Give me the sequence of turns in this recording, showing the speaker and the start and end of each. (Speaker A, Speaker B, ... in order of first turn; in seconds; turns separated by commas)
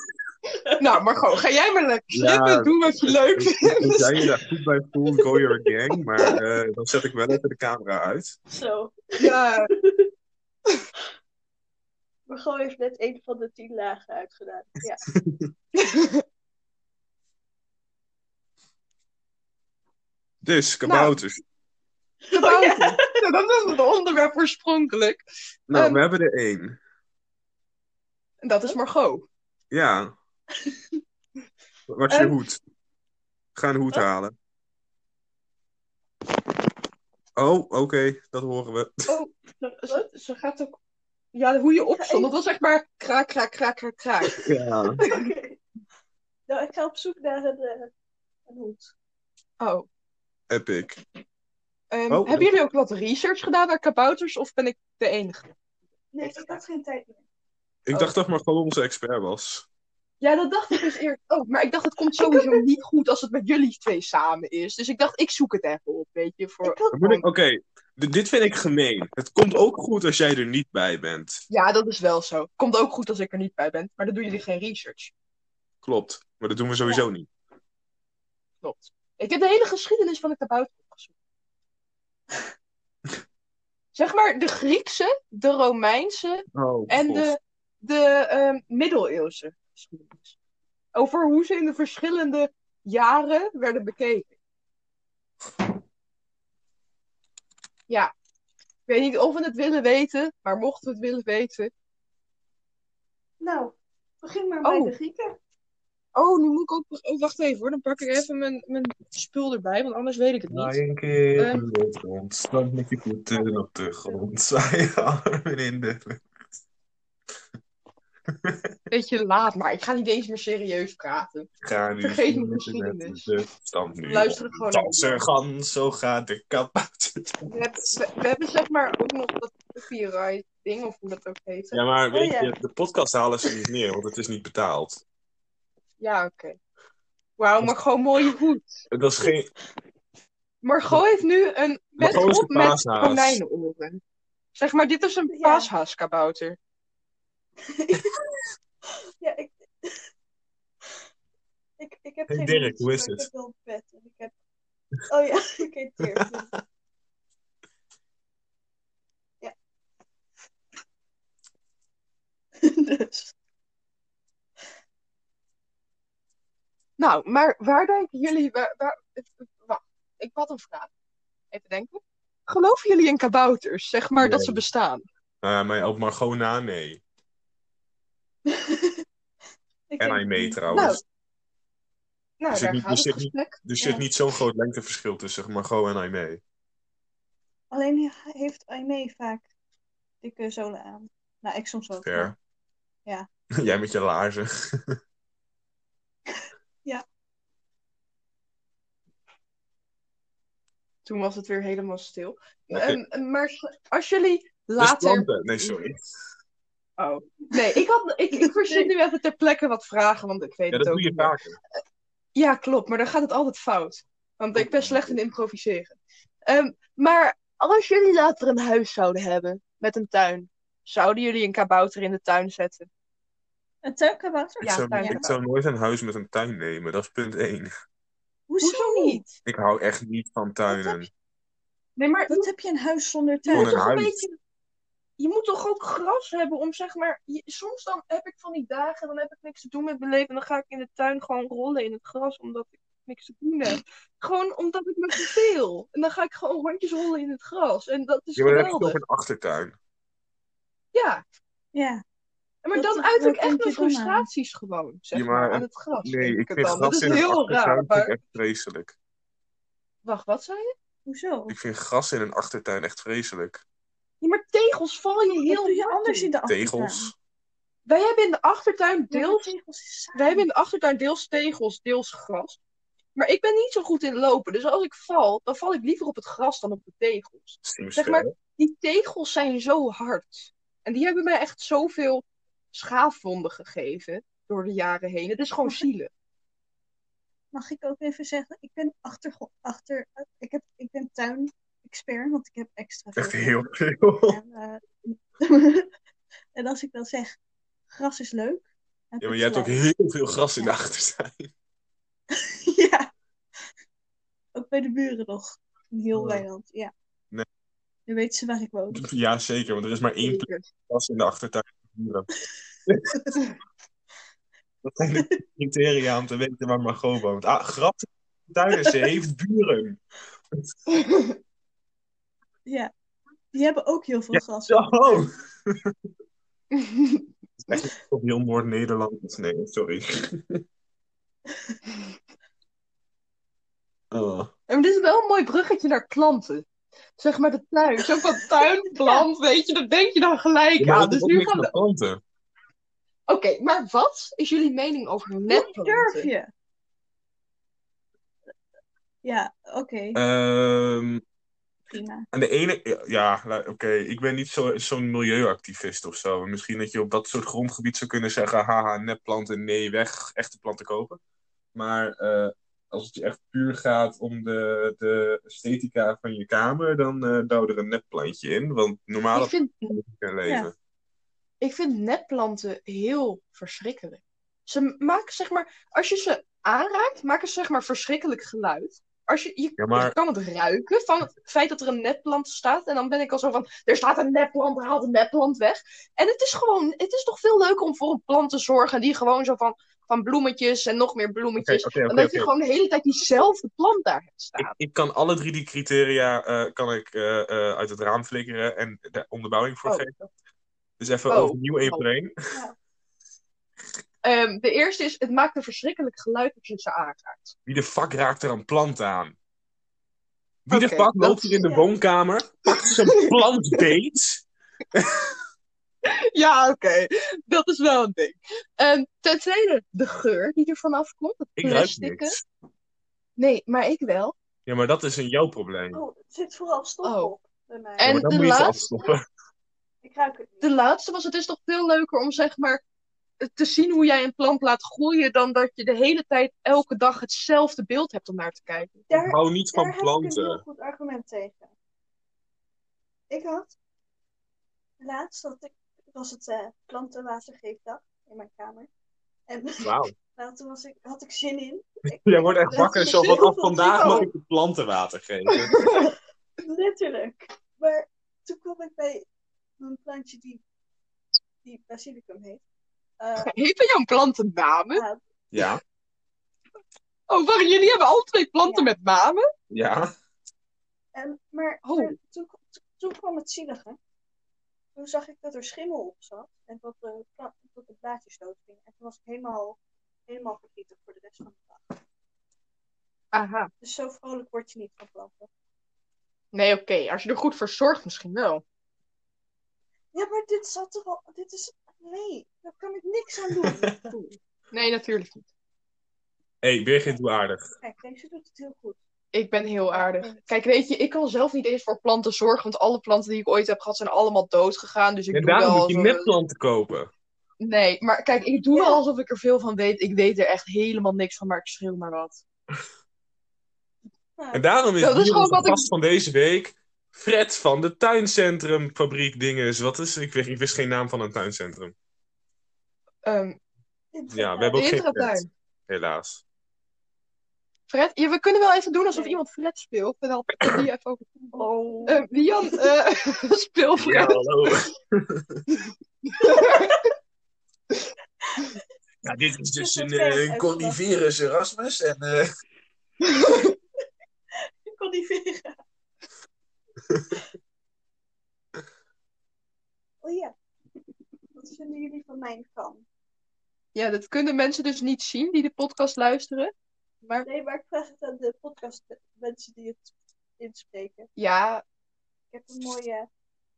Speaker A: 0.5-0.8, Speaker B: 0.8-4.3, Speaker C: 2.1-8.4, Speaker A: 8.5-10.1, Speaker B: 9.2-9.7, Speaker A: 12.3-15.1, Speaker C: 15.1-15.5, Speaker B: 15.7-16.2, Speaker C: 20.4-21.4, Speaker A: 20.9-21.1, Speaker A: 22.3-23.2, Speaker B: 22.3-26.0, Speaker C: 25.7-26.8, Speaker B: 28.4-29.2, Speaker C: 29.7-30.1, Speaker C: 31.9-32.6, Speaker A: 32.1-32.4, Speaker C: 33.5-34.3, Speaker C: 37.4-39.1, Speaker B: 39.1-40.8, Speaker B: 41.3-44.4, Speaker A: 41.8-42.3, Speaker C: 44.4-45.0, Speaker B: 45.0-45.3, Speaker A: 45.0-45.6, Speaker A: 46.5-47.9, Speaker A: 48.5-48.9, Speaker B: 49.6-49.9, Speaker C: 50.5-51.0, Speaker B: 51.9-55.5, Speaker C: 52.1-52.5, Speaker A: 56.1-57.2, Speaker B: 56.2-56.6, Speaker C: 57.9-59.6, Speaker B: 60.2-66.8, Speaker A: 62.2-62.6, Speaker A: 66.6-67.2, Speaker C: 66.9-71.4, Speaker B: 71.5-75.1, Speaker C: 75.8-77.3, Speaker B: 78.6-81.1, Speaker B: 83.9-90.3, Speaker C: 86.5-87.3, Speaker B: 90.9-94.3, Speaker B: 98.9-101.7, Speaker A: 103.4-105.4, Speaker B: 104.6-104.9, Speaker B: 106.1-110.8, Speaker C: 110.5-116.2, Speaker B: 111.4-111.6, Speaker A: 113.4-114.2, Speaker C: 118.3-118.7, Speaker B: 118.9-121.5, Speaker C: 121.6-127.5, Speaker B: 122.0-123.3, Speaker B: 124.1-125.2, Speaker B: 127.5-131.8, Speaker C: 131.7-135.0, Speaker A: 132.1-132.5, Speaker B: 136.0-136.6, Speaker B: 137.4-138.8, Speaker C: 138.9-139.5, Speaker B: 140.6-144.0, Speaker C: 142.0-143.4, Speaker B: 144.5-146.6, Speaker A: 145.3-145.7, Speaker A: 147.7-148.2, Speaker A: 149.2-150.1, Speaker A: 151.8-154.3, Speaker C: 152.3-153.3, Speaker A: 155.1-156.5, Speaker C: 156.2-156.6, Speaker A: 162.6-163.3, Speaker B: 167.0-170.9, Speaker B: 171.5-175.0, Speaker C: 174.2-174.6, Speaker C: 175.4-177.0, Speaker A: 178.5-179.0, Speaker A: 179.9-180.9, Speaker C: 180.0-181.0, Speaker B: 180.7-181.0, Speaker B: 182.4-183.6, Speaker C: 182.5-186.4, Speaker A: 187.7-189.5, Speaker A: 190.2-192.3, Speaker C: 192.0-192.3, Speaker C: 193.6-195.0, Speaker B: 201.0-205.8, Speaker C: 202.7-203.0, Speaker C: 204.8-206.1, Speaker B: 207.0-211.3, Speaker C: 210.7-211.6, Speaker B: 212.3-222.9, Speaker C: 214.6-215.1, Speaker A: 223.8-225.2, Speaker C: 224.6-227.7, Speaker B: 224.6-225.4, Speaker A: 228.5-229.3, Speaker B: 228.6-229.3, Speaker C: 229.4-231.1, Speaker A: 230.7-231.1, Speaker B: 232.0-232.5, Speaker A: 232.3-233.8, Speaker B: 233.5-234.3, Speaker C: 233.5-234.2, Speaker B: 235.2-249.0, Speaker C: 248.4-249.8, Speaker B: 250.9-251.2, Speaker A: 251.7-252.0, Speaker B: 252.6-258.1, Speaker A: 252.7-254.3, Speaker C: 255.1-258.9, Speaker B: 260.0-260.7, Speaker A: 261.1-261.5, Speaker C: 261.5-263.6, Speaker B: 264.2-266.3, Speaker A: 265.3-267.1, Speaker C: 266.5-267.1, Speaker B: 267.9-269.5, Speaker A: 269.1-270.4, Speaker B: 270.1-272.6, Speaker B: 273.1-286.1, Speaker C: 277.6-278.3, Speaker A: 287.5-293.6, Speaker C: 293.2-294.4, Speaker A: 294.3-295.9, Speaker A: 296.5-297.4, Speaker A: 297.9-299.8, Speaker C: 299.2-301.5, Speaker A: 302.3-303.1, Speaker A: 304.5-306.9, Speaker C: 306.1-306.4, Speaker A: 308.1-309.1, Speaker C: 308.9-312.3, Speaker B: 310.2-310.7, Speaker C: 312.9-313.1, Speaker C: 314.8-320.0, Speaker A: 315.1-315.4, Speaker B: 320.9-321.4, Speaker A: 322.6-322.9, Speaker A: 323.5-325.2, Speaker C: 324.3-325.9, Speaker B: 326.7-327.3, Speaker C: 327.7-330.6, Speaker C: 334.1-334.5, Speaker B: 334.7-336.6, Speaker B: 337.2-341.7, Speaker C: 340.8-342.2, Speaker B: 343.3-346.3, Speaker A: 345.5-346.5, Speaker A: 349.2-350.2, Speaker C: 350.1-351.2, Speaker A: 351.9-352.2, Speaker C: 352.3-361.2, Speaker C: 361.7-370.7, Speaker B: 369.3-370.0, Speaker B: 371.6-394.7, Speaker C: 379.8-380.1, Speaker C: 391.6-392.5, Speaker C: 394.6-400.1, Speaker B: 399.8-400.2, Speaker C: 401.0-402.3, Speaker B: 401.3-402.1, Speaker A: 402.5-402.8, Speaker B: 404.2-407.5, Speaker C: 407.6-409.4, Speaker C: 410.7-415.3, Speaker B: 410.7-411.7, Speaker B: 412.8-413.3, Speaker B: 416.0-422.4, Speaker C: 421.6-422.4, Speaker B: 423.4-424.3, Speaker C: 424.6-426.0, Speaker A: 425.9-428.3, Speaker B: 427.0-427.3, Speaker B: 428.0-428.8, Speaker C: 428.0-429.2, Speaker A: 430.0-430.7, Speaker B: 430.6-432.8, Speaker B: 433.4-439.1, Speaker A: 439.1-441.7, Speaker C: 439.1-440.6, Speaker A: 443.3-443.8, Speaker A: 445.0-448.9, Speaker A: 449.5-454.3, Speaker C: 449.8-450.1, Speaker C: 452.2-455.8, Speaker B: 453.1-453.4, Speaker B: 454.0-454.3, Speaker B: 455.5-456.1, Speaker A: 456.6-459.2, Speaker A: 459.8-460.6, Speaker A: 461.6-462.6, Speaker A: 463.2-463.5, Speaker B: 463.4-465.0, Speaker A: 464.9-465.2, Speaker C: 465.5-465.8, Speaker B: 467.3-469.4, Speaker A: 468.6-468.9, Speaker C: 469.7-470.1, Speaker A: 471.1-474.0, Speaker B: 471.8-472.1, Speaker A: 474.9-481.9, Speaker B: 483.3-483.7, Speaker A: 483.8-485.5, Speaker B: 486.5-488.6, Speaker A: 490.1-494.1, Speaker B: 494.1-495.5, Speaker C: 496.6-497.7, Speaker A: 497.8-499.0, Speaker B: 499.3-506.3, Speaker A: 499.6-500.4, Speaker C: 505.3-507.1, Speaker B: 507.6-512.4, Speaker A: 508.7-509.0, Speaker A: 514.4-514.6, Speaker C: 514.5-521.9, Speaker B: 515.0-515.8, Speaker B: 523.2-523.6, Speaker A: 524.1-524.8, Speaker C: 524.3-526.4, Speaker B: 524.7-525.5, Speaker B: 527.9-531.5, Speaker A: 529.1-529.4, Speaker C: 530.6-530.9, Speaker A: 531.5-532.9, Speaker B: 532.0-534.7, Speaker C: 534.0-535.6, Speaker B: 535.8-537.1, Speaker A: 536.4-537.0, Speaker C: 539.2-542.5, Speaker A: 539.8-541.0, Speaker B: 543.2-543.7, Speaker A: 544.9-545.8, Speaker C: 547.1-547.3, Speaker A: 550.2-550.5, Speaker A: 551.5-553.0, Speaker B: 553.9-557.5, Speaker A: 557.4-561.3, Speaker B: 561.4-561.8, Speaker A: 562.5-563.3